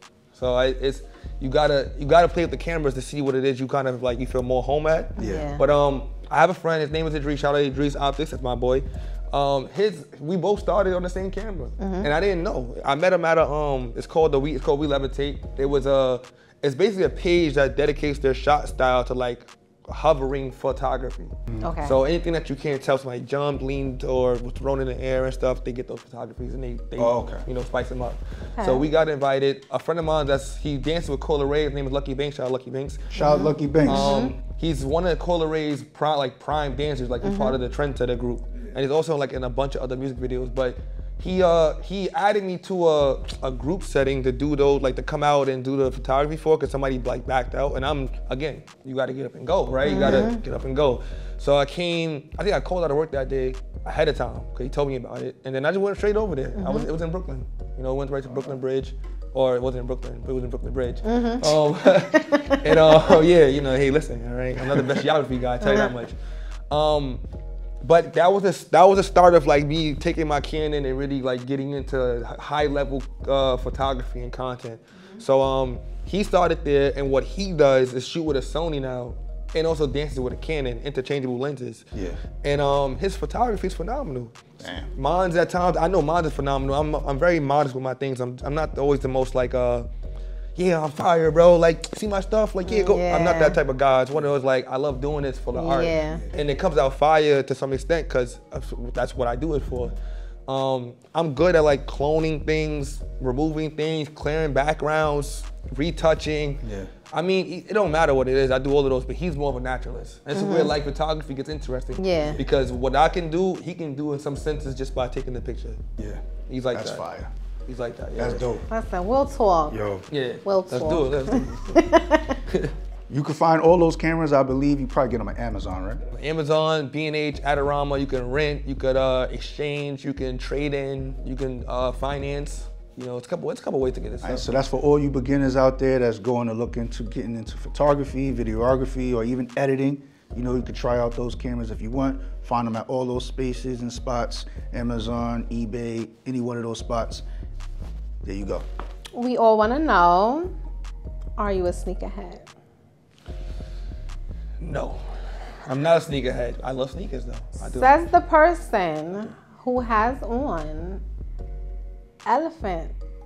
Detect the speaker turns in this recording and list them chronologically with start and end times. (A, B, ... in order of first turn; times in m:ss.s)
0:00.3-0:33.1 A
0:05.2-0:05.5 B
0:05.2-0:05.6 C
0:11.8-0:12.1 C
0:21.6-0:22.0 C
0:27.0-0:27.4 B
0:28.6-0:28.8 C
0:33.1-0:34.2 B
0:33.1-0:34.3 C
0:33.8-1:06.2 A
0:37.2-0:37.6 C
0:49.8-0:50.4 C
0:56.6-0:56.9 C
1:01.0-1:03.1 C
1:05.6-1:05.9 C
1:06.7-1:07.2 A
1:07.8-1:21.9 A
1:21.9-1:22.2 B
1:22.4-1:29.9 A
1:24.6-1:24.9 B
1:30.6-1:39.9 A
1:32.6-1:33.6 C
1:35.5-1:36.2 C
1:40.5-1:55.8 A
1:46.6-1:46.9 B
1:50.3-1:50.7 C
1:52.0-1:52.4 C
1:56.0-1:56.2 B
1:56.5-1:57.0 A
1:56.7-1:57.3 B
1:57.6-1:58.4 A
1:58.2-1:58.6 B
1:58.7-1:59.8 C
1:59.7-2:00.0 B
2:00.1-2:01.9 A
2:00.4-2:02.4 C
2:02.5-2:02.7 A
2:03.1-2:06.0 B
2:06.1-2:14.5 A
2:14.2-2:27.2 B
2:28.2-2:28.6 B
2:29.1-2:30.5 C
2:31.4-2:32.4 C
2:34.6-2:35.0 A
2:35.6-2:37.9 A
2:37.6-2:41.0 C
2:42.2-2:42.9 C